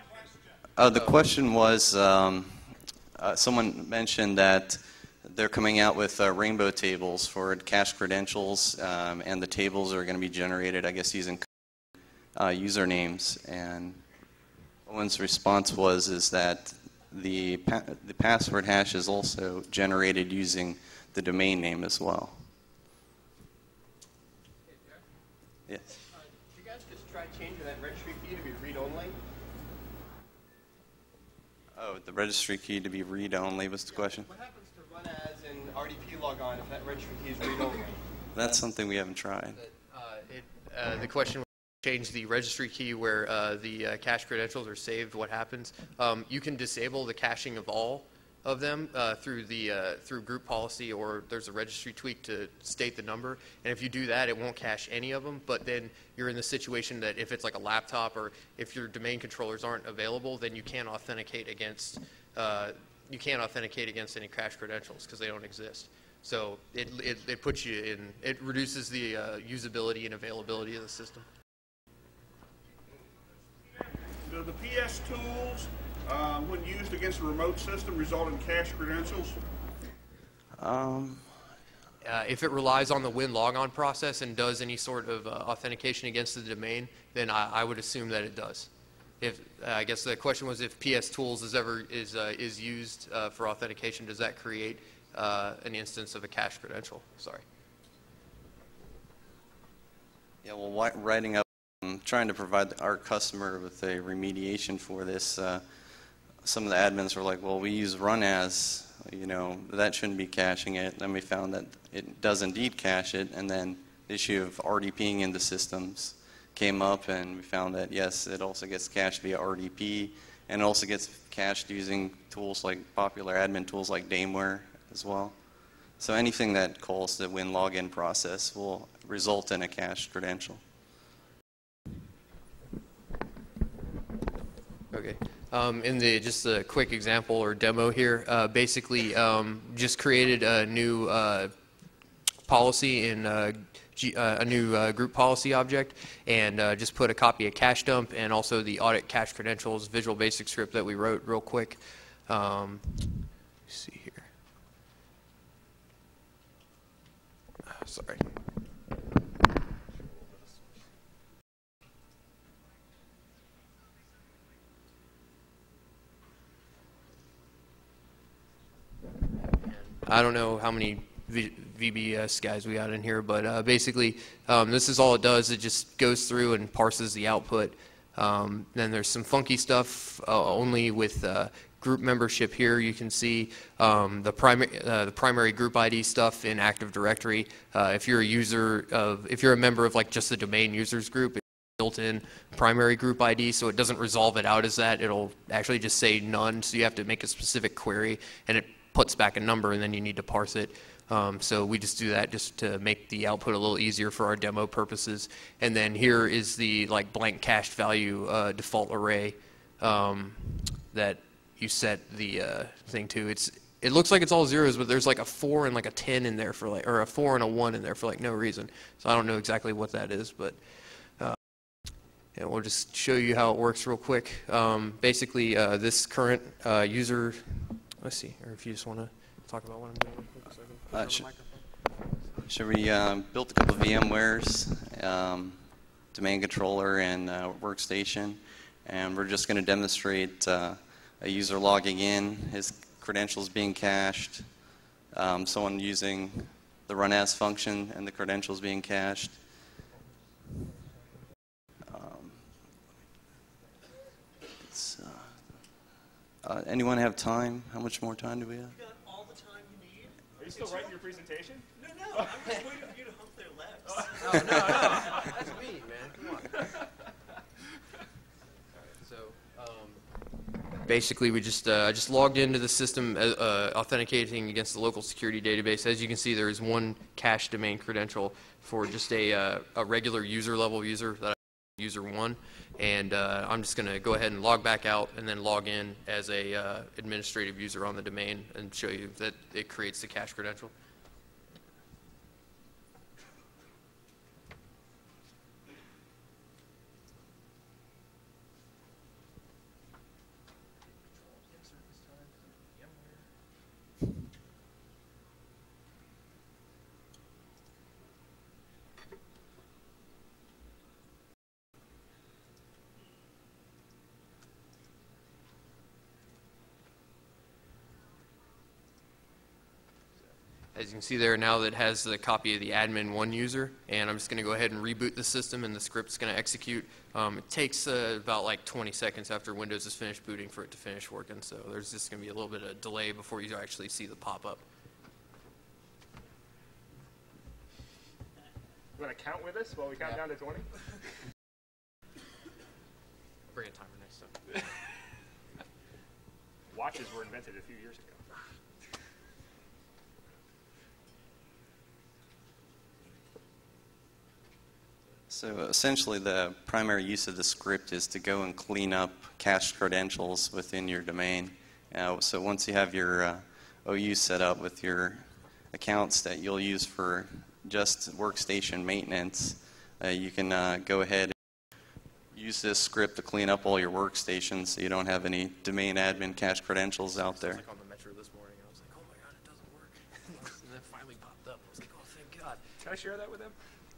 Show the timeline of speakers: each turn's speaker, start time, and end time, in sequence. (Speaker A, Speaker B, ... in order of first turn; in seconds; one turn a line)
Speaker A: 0.8-11.5
Speaker A: 12.4-14.0
Speaker A: 14.9-22.4
Speaker B: 24.7-25.0
Speaker A: 25.7-26.0
Speaker B: 26.1-29.2
Speaker A: 31.8-34.3
Speaker B: 33.9-38.0
Speaker A: 38.3-39.6
Speaker C: 39.6-71.3
Speaker D: 74.2-79.4
Speaker A: 80.6-81.3
Speaker C: 82.0-88.7
Speaker C: 89.2-97.4
Speaker A: 100.4-105.6
Speaker A: 106.4-125.3
Speaker A: 126.0-130.6
Speaker C: 134.9-141.5
Speaker C: 142.5-154.3
Speaker C: 157.7-158.2
Speaker C: 169.6-220.6
Speaker C: 222.3-231.6
Speaker A: 230.9-231.3
Speaker A: 232.5-235.6
Speaker A: 236.1-244.5
Speaker A: 245.1-249.4
Speaker A: 251.8-252.4
Speaker A: 254.6-255.3
Speaker A: 256.4-258.8
Speaker E: 258.8-260.2
Speaker F: 260.4-261.7
Speaker E: 261.8-263.8
Speaker C: 263.9-266.6
Speaker C: 268.8-270.0
Speaker C: 270.9-290.7
Speaker E: 301.2-303.2
Speaker C: 320.8-334.6
Speaker F: 339.0-340.7
Speaker C: 343.5-344.4
Speaker F: 346.7-348.2
Speaker A: 355.3-371.4
Speaker A: 372.3-377.6
Speaker C: 377.1-382.6
Speaker F: 382.8-383.6